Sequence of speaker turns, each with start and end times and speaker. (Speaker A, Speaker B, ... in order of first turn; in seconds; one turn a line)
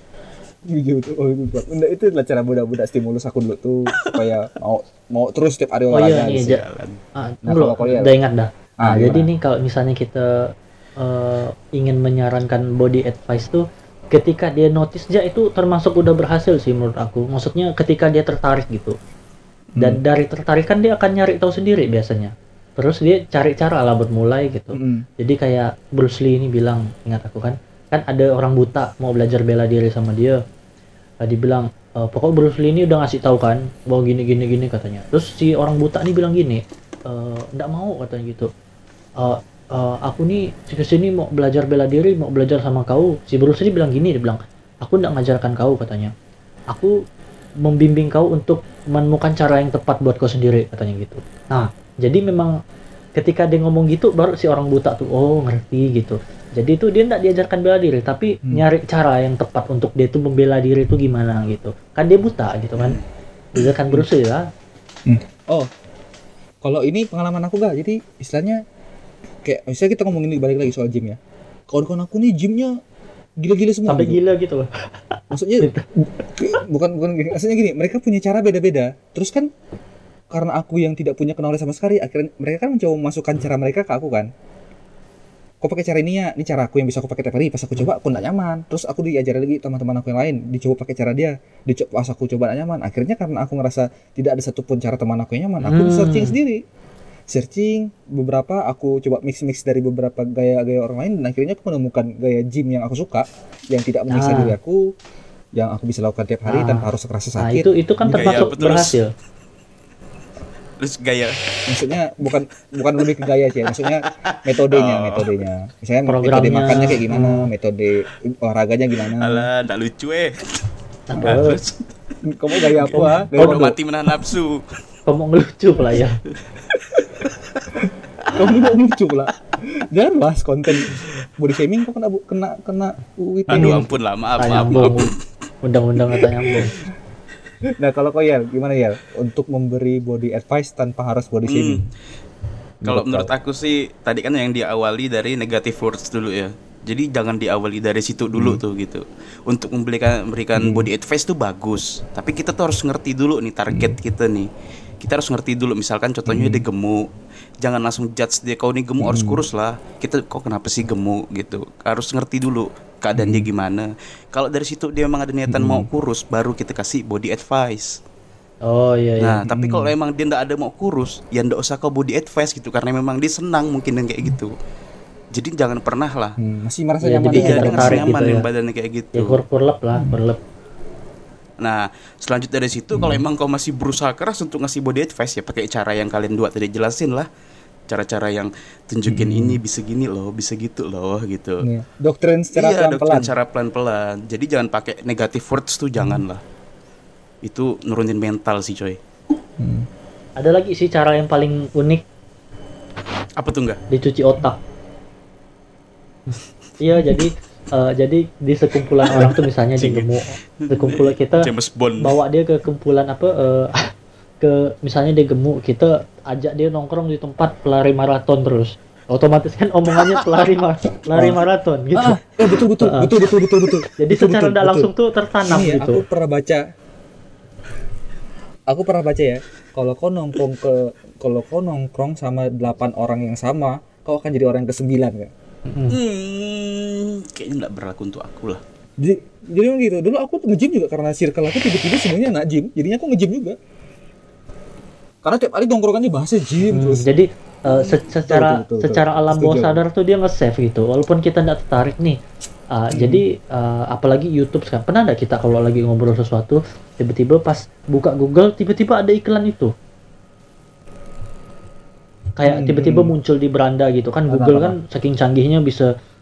Speaker A: 0.7-6.5
Speaker B: 5.9-6.6
Speaker C: 6.3-7.0
Speaker B: 7.2-10.4
Speaker A: 7.4-8.1
Speaker A: 8.8-9.3
Speaker B: 11.0-18.9
Speaker B: 19.8-30.4
Speaker A: 24.7-25.0
Speaker B: 31.2-38.5
Speaker B: 39.2-46.1
Speaker B: 47.6-52.5
Speaker B: 53.2-63.0
Speaker C: 62.8-63.0
Speaker B: 63.5-64.5
Speaker A: 65.1-65.7
Speaker A: 66.6-68.6
Speaker A: 69.4-71.2
Speaker A: 71.7-72.7
Speaker A: 73.4-74.2
Speaker B: 73.9-75.8
Speaker A: 75.3-75.7
Speaker A: 76.3-79.5
Speaker A: 80.3-84.3
Speaker A: 85.6-96.6
Speaker B: 95.6-96.3
Speaker A: 97.3-104.9
Speaker B: 104.1-104.5
Speaker A: 105.5-108.6
Speaker B: 106.5-106.9
Speaker B: 107.4-109.1
Speaker C: 108.1-109.0
Speaker C: 110.8-111.4
Speaker A: 111.7-119.5
Speaker C: 113.0-115.3
Speaker B: 116.1-117.5
Speaker C: 119.1-120.4
Speaker B: 121.1-121.6
Speaker C: 121.2-124.6
Speaker A: 122.2-123.8
Speaker B: 122.8-123.6
Speaker B: 125.1-126.2
Speaker C: 126.7-128.7
Speaker A: 128.3-133.9
Speaker C: 133.5-135.1
Speaker B: 133.5-133.8
Speaker B: 134.4-135.1
Speaker A: 134.5-134.9
Speaker B: 135.6-136.7
Speaker A: 136.2-136.7
Speaker A: 137.7-141.8
Speaker C: 141.5-141.8
Speaker A: 142.8-143.3
Speaker C: 142.8-154.5
Speaker A: 148.3-148.6
Speaker A: 150.6-150.9
Speaker A: 153.7-153.9
Speaker C: 155.0-157.0
Speaker A: 156.3-156.6
Speaker C: 157.6-168.0
Speaker A: 159.0-159.4
Speaker A: 163.2-163.5
Speaker A: 165.5-165.9
Speaker B: 168.7-169.4
Speaker C: 169.2-174.5
Speaker A: 169.5-169.9
Speaker C: 175.3-176.3
Speaker A: 176.4-178.1
Speaker B: 177.0-178.4
Speaker C: 177.3-179.4
Speaker B: 179.1-180.4
Speaker C: 181.6-187.3
Speaker A: 182.9-183.2
Speaker C: 187.9-191.7
Speaker A: 189.1-189.6
Speaker A: 191.6-193.3
Speaker C: 192.5-196.4
Speaker C: 197.4-199.0
Speaker A: 199.6-199.9
Speaker B: 200.4-202.0
Speaker C: 203.4-203.8
Speaker B: 203.9-204.6
Speaker B: 206.8-211.5
Speaker C: 209.8-210.1
Speaker C: 210.6-212.2
Speaker B: 212.0-213.9
Speaker B: 214.4-222.2
Speaker A: 221.1-221.4
Speaker A: 221.9-224.9
Speaker B: 222.8-223.1
Speaker B: 224.0-226.0
Speaker A: 225.5-226.6
Speaker A: 228.7-235.3
Speaker B: 235.7-236.0
Speaker C: 235.9-238.6
Speaker A: 239.0-243.6
Speaker A: 245.2-247.0
Speaker B: 246.7-252.2
Speaker A: 248.2-249.8
Speaker B: 252.7-259.7
Speaker A: 252.9-253.2
Speaker B: 262.4-265.9
Speaker A: 262.4-263.1
Speaker A: 264.3-264.8